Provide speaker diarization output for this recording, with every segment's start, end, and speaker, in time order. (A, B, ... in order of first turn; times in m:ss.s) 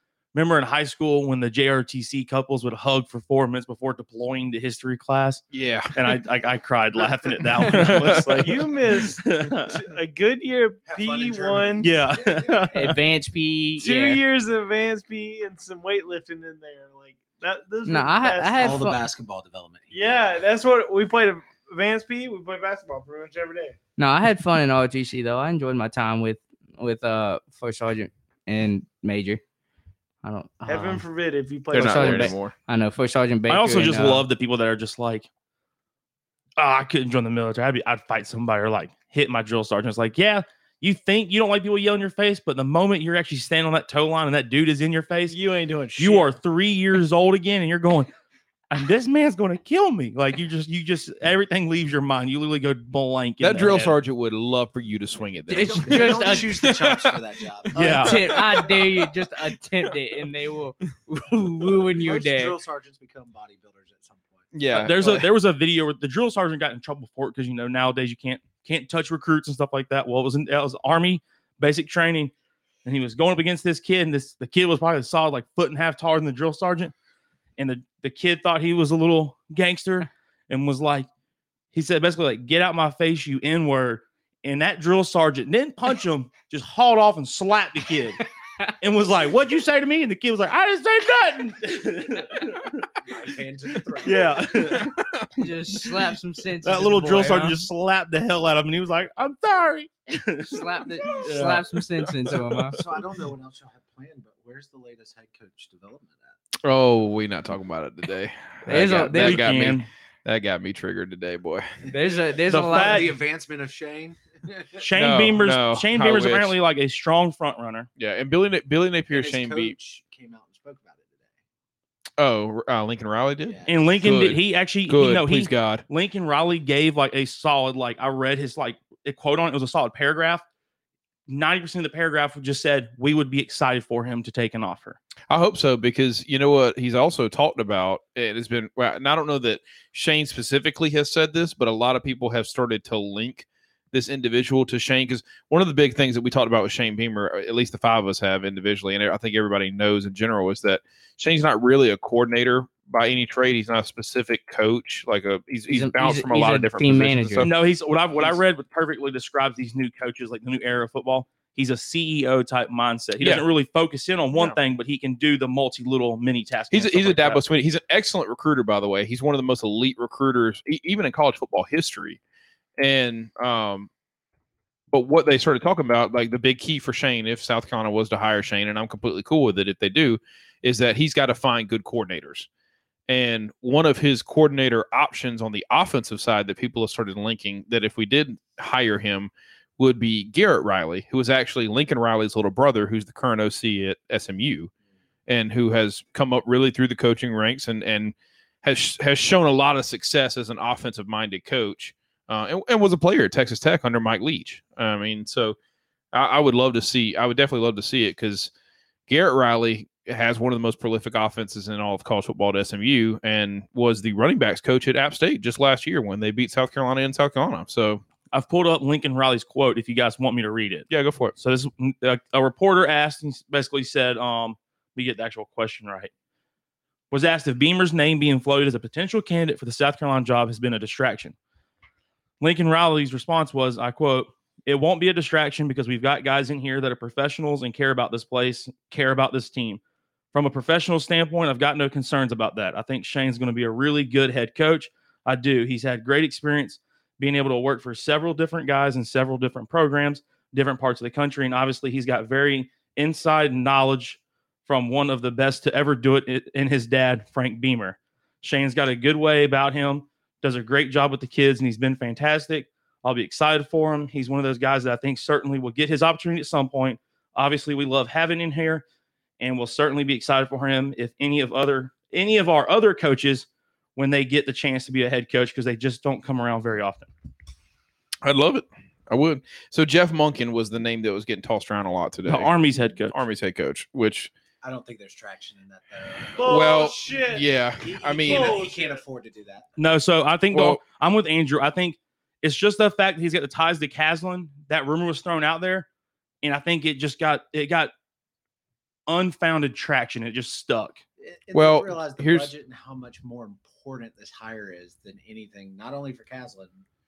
0:00.3-0:05.4 A
0:05.5-0:05.9 B
0:05.9-0:09.8 A
0:07.7-0:08.5 B
0:08.4-0:11.9 C
0:10.9-0:12.9 D
0:11.8-0:13.0 A
0:12.7-0:14.2 E
0:13.8-0:18.8 C
0:17.8-0:19.0 E
0:18.6-0:20.3 D
0:19.9-0:23.8 C
0:24.0-0:29.4 E
0:30.2-0:31.0 E
0:30.7-0:32.4 C
0:31.7-0:32.5 B
0:31.7-0:34.2 E
0:33.5-0:35.3 A
0:36.6-0:45.4 A
0:45.3-0:46.3 C
0:46.0-0:48.1 A
0:48.7-0:53.9 A
0:53.4-0:57.2 B
0:55.5-0:56.7 E
0:55.6-0:58.7 D
0:57.8-0:58.2 A
0:57.8-1:02.6 E
0:58.2-0:58.9 B
1:01.9-1:04.5 D
1:04.5-1:05.3 B
1:04.7-1:12.3 A
1:12.8-1:16.9 A
1:17.6-1:21.1 A
1:21.7-1:28.2 A
1:28.8-1:32.9 A
1:33.0-1:34.8 D
1:34.0-1:34.9 A
1:34.7-1:35.3 B
1:35.4-1:37.6 E
1:36.6-1:41.7 A
1:40.4-1:42.8 E
1:42.7-1:46.4 D
1:46.6-1:51.6 B
1:48.7-1:49.5 E
1:49.1-1:49.9 A
1:51.9-1:54.9 D
1:51.9-1:53.2 E
1:52.5-1:53.1 A
1:54.8-1:57.9 A
1:54.9-1:56.6 B
1:58.0-1:59.8 B
1:59.1-2:01.3 D
2:02.2-2:05.8 B
2:03.4-2:03.9 D
2:03.7-2:10.4 A
2:11.3-2:15.0 A
2:15.3-2:37.5 B
2:35.7-2:37.5 E
2:37.4-2:47.4 A
2:43.2-2:43.4 B
2:46.7-2:52.2 B
2:52.8-2:53.9 B
2:54.9-3:02.5 B
3:03.1-3:14.7 B
3:15.3-3:25.6 B
3:26.1-3:28.5 B
3:29.1-3:38.0 B
3:38.3-3:46.1 A
3:40.9-3:41.3 B
3:47.1-3:51.4 A
3:52.4-3:59.8 A
4:00.3-4:28.8 A
4:29.4-4:37.1 A
4:38.2-4:42.5 B
4:42.3-4:43.2 A
4:43.1-4:44.3 B
4:44.6-4:47.1 D
4:46.4-4:49.0 C
4:46.4-4:48.6 B
4:47.8-4:49.7 D
4:49.8-4:55.9 A
4:50.5-4:50.8 B
4:56.4-4:57.9 A
4:59.1-5:01.0 A
5:01.2-5:06.8 D
5:01.5-5:02.5 B